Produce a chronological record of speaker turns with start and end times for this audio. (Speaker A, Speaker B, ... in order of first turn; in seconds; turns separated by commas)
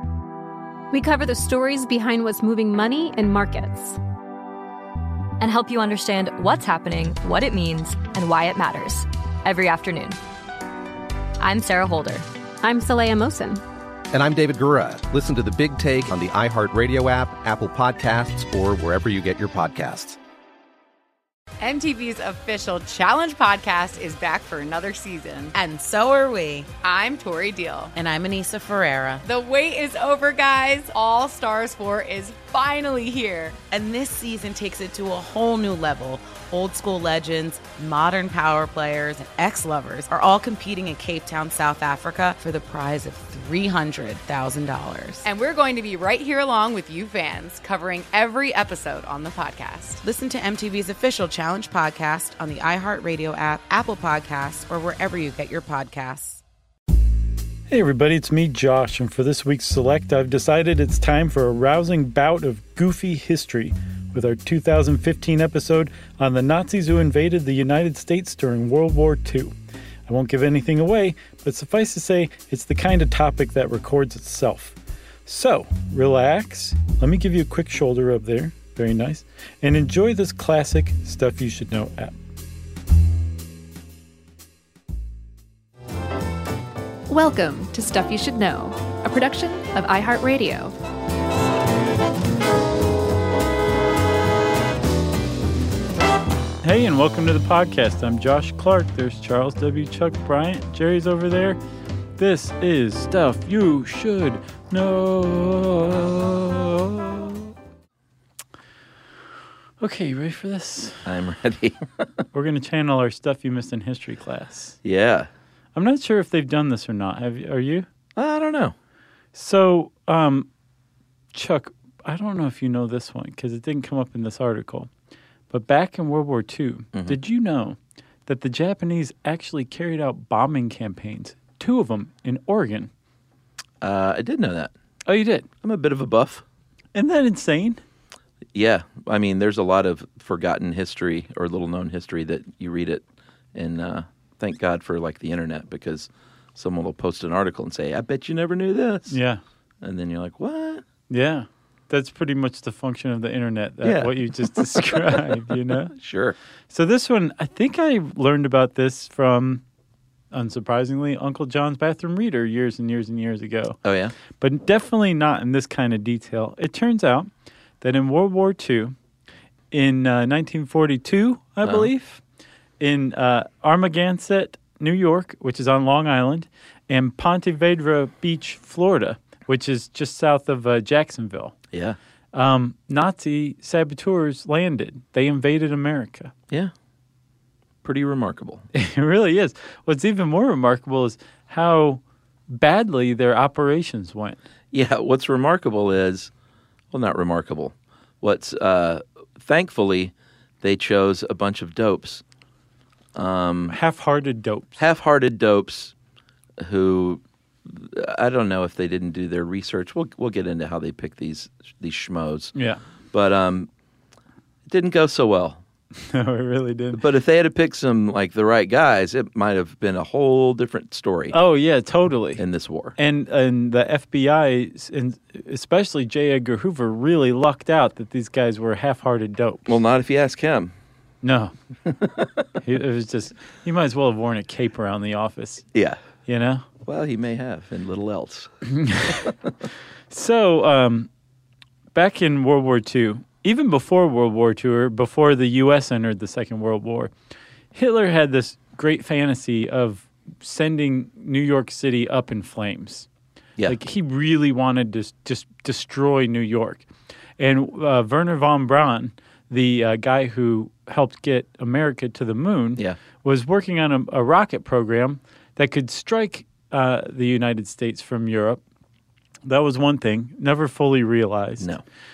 Speaker A: 0.9-4.0, Speaker B: 5.4-10.2, Speaker B: 11.4-12.2, Speaker A: 12.6-13.6, Speaker C: 14.1-20.2, Speaker D: 21.6-25.6, Speaker E: 25.6-26.7, Speaker D: 26.8-27.9, Speaker E: 27.9-29.2, Speaker D: 29.2-33.6, Speaker E: 33.7-45.2, Speaker D: 45.2-50.0, Speaker E: 49.9-56.4, Speaker F: 57.7-69.5, Speaker F: 70.1-82.1, Speaker A: 87.1-90.7, Speaker F: 96.6-101.6, Speaker F: 102.2-107.5, Speaker F: 109.8-111.0, Speaker G: 111.0-111.8, Speaker F: 112.3-114.8, Speaker G: 114.8-115.3, Speaker F: 115.7-117.9, Speaker G: 118.2-118.7, Speaker F: 119.3-120.5, Speaker F: 121.3-124.9, Speaker F: 125.5-132.9, Speaker G: 133.8-134.7, Speaker F: 135.1-135.4, Speaker G: 135.6-136.4, Speaker F: 136.9-137.8, Speaker G: 138.5-143.0, Speaker G: 143.5-149.2, Speaker F: 149.1-149.4, Speaker G: 149.8-150.8, Speaker F: 151.1-155.9, Speaker G: 153.8-155.2, Speaker G: 155.9-156.3, Speaker F: 156.7-159.6, Speaker F: 160.3-163.8, Speaker G: 163.8-164.1, Speaker F: 164.4-167.3, Speaker F: 167.8-168.9, Speaker F: 169.7-172.2, Speaker G: 171.6-171.9, Speaker F: 172.8-181.6, Speaker F: 182.3-186.3, Speaker G: 187.8-188.7, Speaker F: 188.7-194.4, Speaker G: 194.7-196.3, Speaker G: 196.9-202.2, Speaker G: 203.2-203.8, Speaker F: 203.7-204.8, Speaker G: 204.8-205.9, Speaker G: 206.6-212.5, Speaker F: 212.5-212.8, Speaker G: 213.1-213.7, Speaker G: 214.7-215.6, Speaker F: 216.0-217.0, Speaker G: 216.9-221.3, Speaker F: 221.3-222.4, Speaker G: 222.4-222.9, Speaker F: 222.9-229.7, Speaker G: 229.7-230.7, Speaker F: 231.2-231.5, Speaker F: 232.6-235.6, Speaker F: 236.2-236.7, Speaker G: 236.8-238.5, Speaker F: 238.7-239.1, Speaker F: 240.1-241.1, Speaker F: 241.9-247.1, Speaker F: 247.7-253.1, Speaker F: 253.7-256.9, Speaker F: 257.4-268.6, Speaker F: 269.4-271.7